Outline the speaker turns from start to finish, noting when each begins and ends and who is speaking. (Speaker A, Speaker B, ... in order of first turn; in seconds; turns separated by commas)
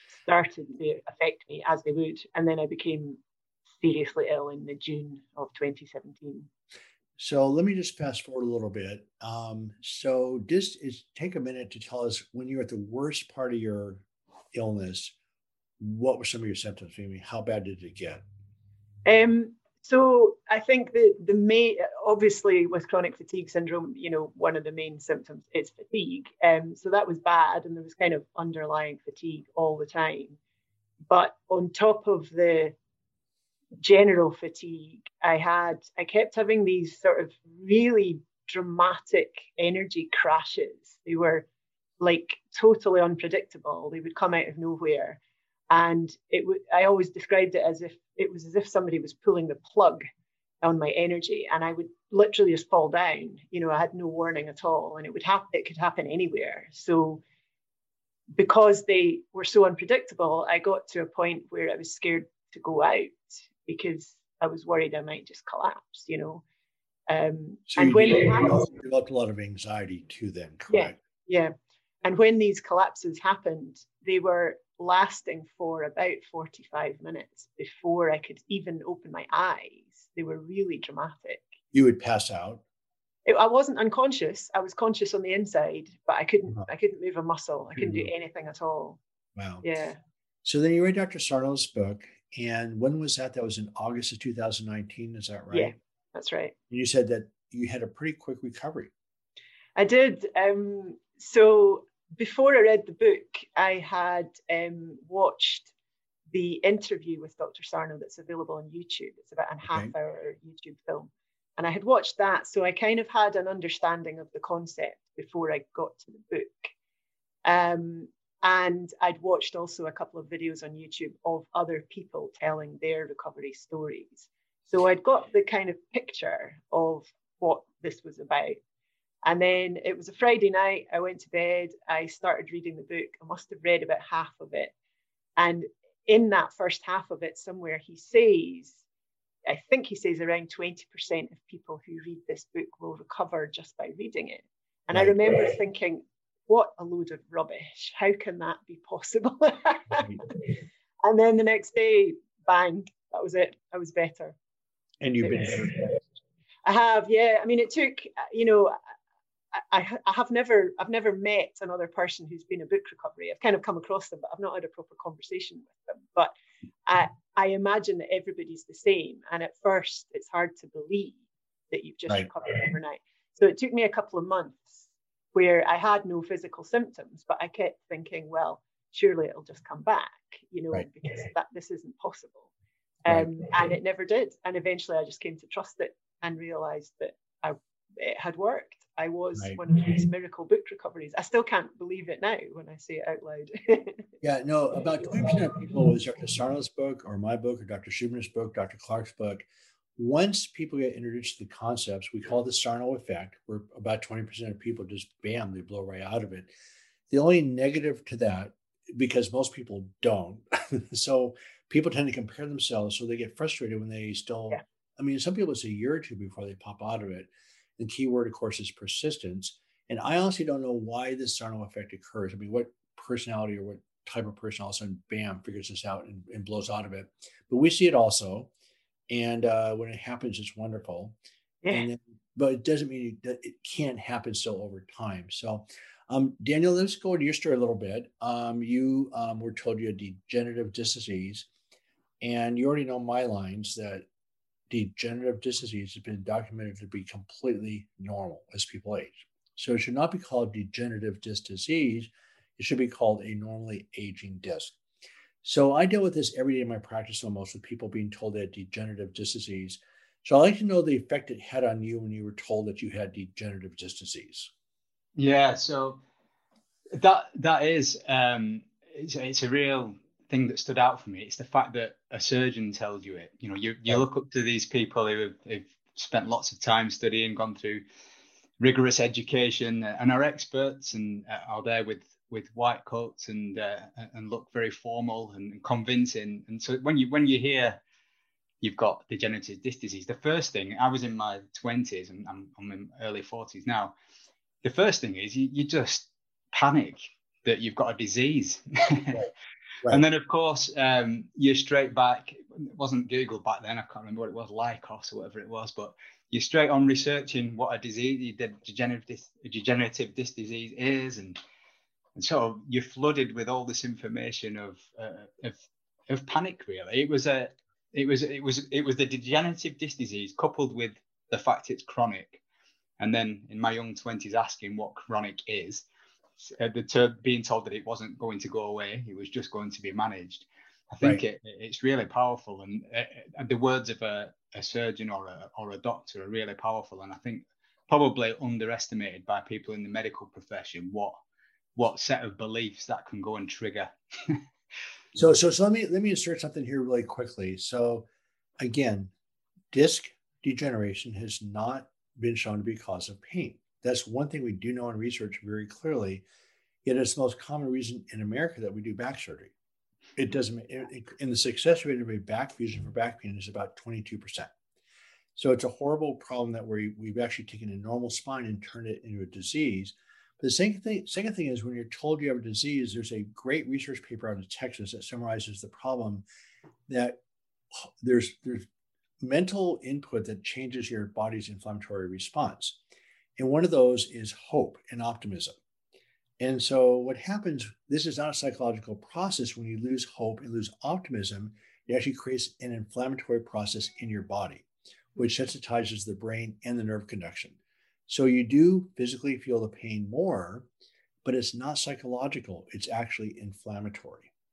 Speaker A: 0.3-3.2, Speaker A: 3.8-6.5, Speaker B: 7.2-15.1, Speaker B: 15.8-18.2, Speaker A: 19.1-30.4, Speaker A: 31.1-32.7, Speaker A: 33.8-41.5, Speaker A: 42.0-45.2, Speaker A: 45.7-50.0, Speaker A: 50.6-57.2, Speaker A: 58.4-66.4, Speaker A: 67.1-68.7, Speaker B: 67.7-71.0, Speaker A: 70.7-81.5, Speaker B: 81.7-82.6, Speaker A: 83.3-89.0, Speaker B: 87.8-88.1, Speaker B: 89.4-89.7, Speaker A: 89.6-90.0, Speaker B: 90.4-95.7, Speaker A: 95.5-96.5, Speaker B: 96.7-98.9, Speaker A: 99.8-105.7, Speaker A: 106.3-116.7, Speaker A: 117.5-128.6, Speaker A: 129.2-134.7, Speaker A: 135.4-138.8, Speaker A: 139.5-150.5, Speaker B: 144.9-145.4, Speaker A: 151.0-154.3, Speaker B: 155.0-156.0, Speaker A: 155.2-155.7, Speaker A: 156.7-158.8, Speaker A: 159.5-166.3, Speaker A: 166.9-182.5, Speaker A: 183.1-194.1, Speaker B: 189.4-189.6, Speaker B: 194.2-199.4, Speaker B: 200.0-206.5, Speaker B: 207.1-228.5, Speaker B: 229.1-231.2, Speaker A: 231.6-231.9, Speaker B: 231.7-241.5, Speaker B: 242.2-244.1, Speaker B: 244.7-254.8, Speaker B: 255.4-264.5, Speaker C: 265.2-266.0, Speaker C: 266.9-277.8, Speaker C: 278.6-287.8, Speaker C: 288.6-293.9, Speaker C: 294.6-299.3, Speaker C: 299.9-311.4, Speaker C: 312.2-322.4, Speaker C: 323.0-325.9, Speaker C: 326.4-341.1, Speaker C: 341.8-344.4, Speaker B: 345.1-348.1, Speaker B: 348.6-349.1, Speaker B: 349.7-356.2, Speaker B: 356.9-359.5, Speaker B: 360.2-364.5, Speaker B: 365.4-376.2, Speaker B: 376.9-377.2, Speaker B: 377.8-378.7, Speaker B: 379.2-382.8, Speaker B: 383.4-385.6, Speaker B: 386.4-394.7, Speaker B: 395.2-397.6, Speaker B: 398.1-400.7, Speaker B: 401.2-404.3